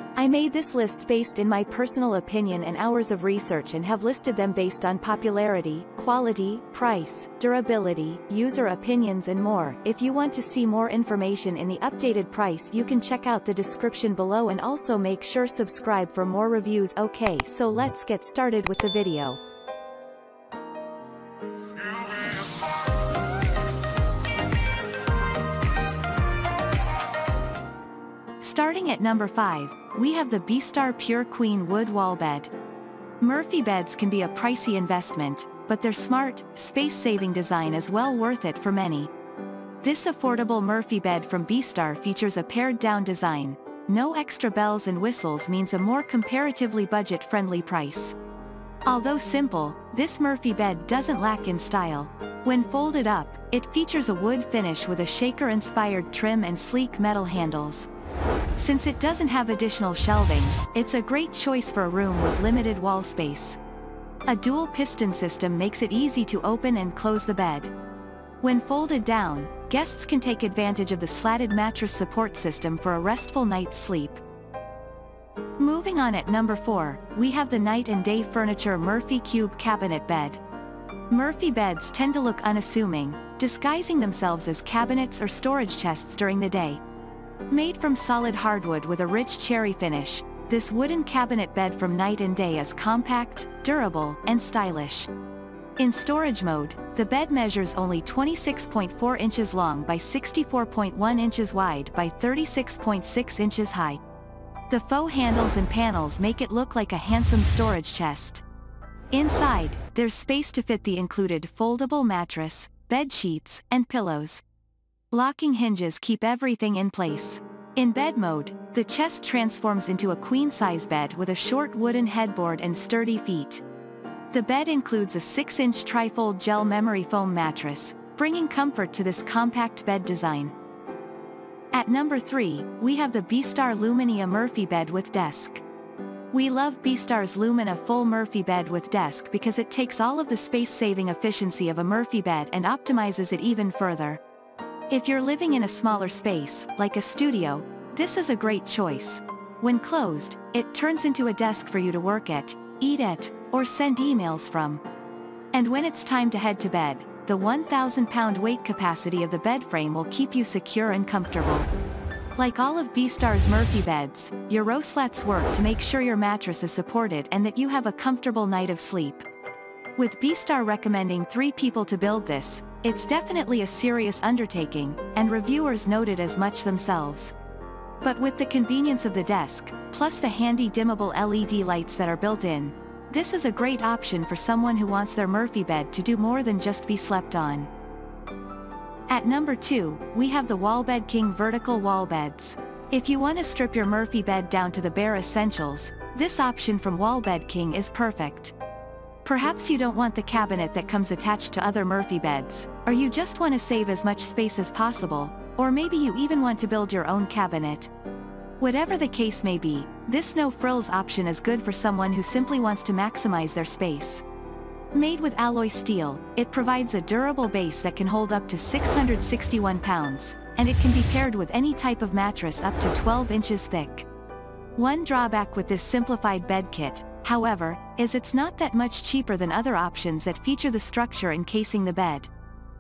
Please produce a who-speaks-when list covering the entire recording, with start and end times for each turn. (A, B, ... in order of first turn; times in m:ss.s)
0:00.2-0:19.4 A
0:28.4-0:32.5 A
0:33.2-0:39.1 A
0:39.8-0:48.2 A
0:48.8-0:57.9 A
0:58.6-1:03.6 A
1:04.3-1:07.7 A
1:08.4-1:14.2 A
1:15.6-1:20.4 A
1:21.1-1:26.8 A
1:27.5-1:35.1 A
1:35.8-1:44.0 A
1:44.7-1:48.4 A
1:49.1-1:54.4 A
1:55.1-2:03.6 A
2:04.3-2:10.5 A
2:11.7-2:15.6 A
2:16.3-2:24.2 A
2:24.9-2:34.8 A
2:35.5-2:41.7 A
2:42.4-2:49.2 A
2:50.0-2:57.3 A
2:58.0-3:07.7 A
3:09.1-3:18.5 A
3:19.2-3:27.9 A
3:28.6-3:34.2 A
3:34.9-3:44.1 A
3:44.8-3:52.3 A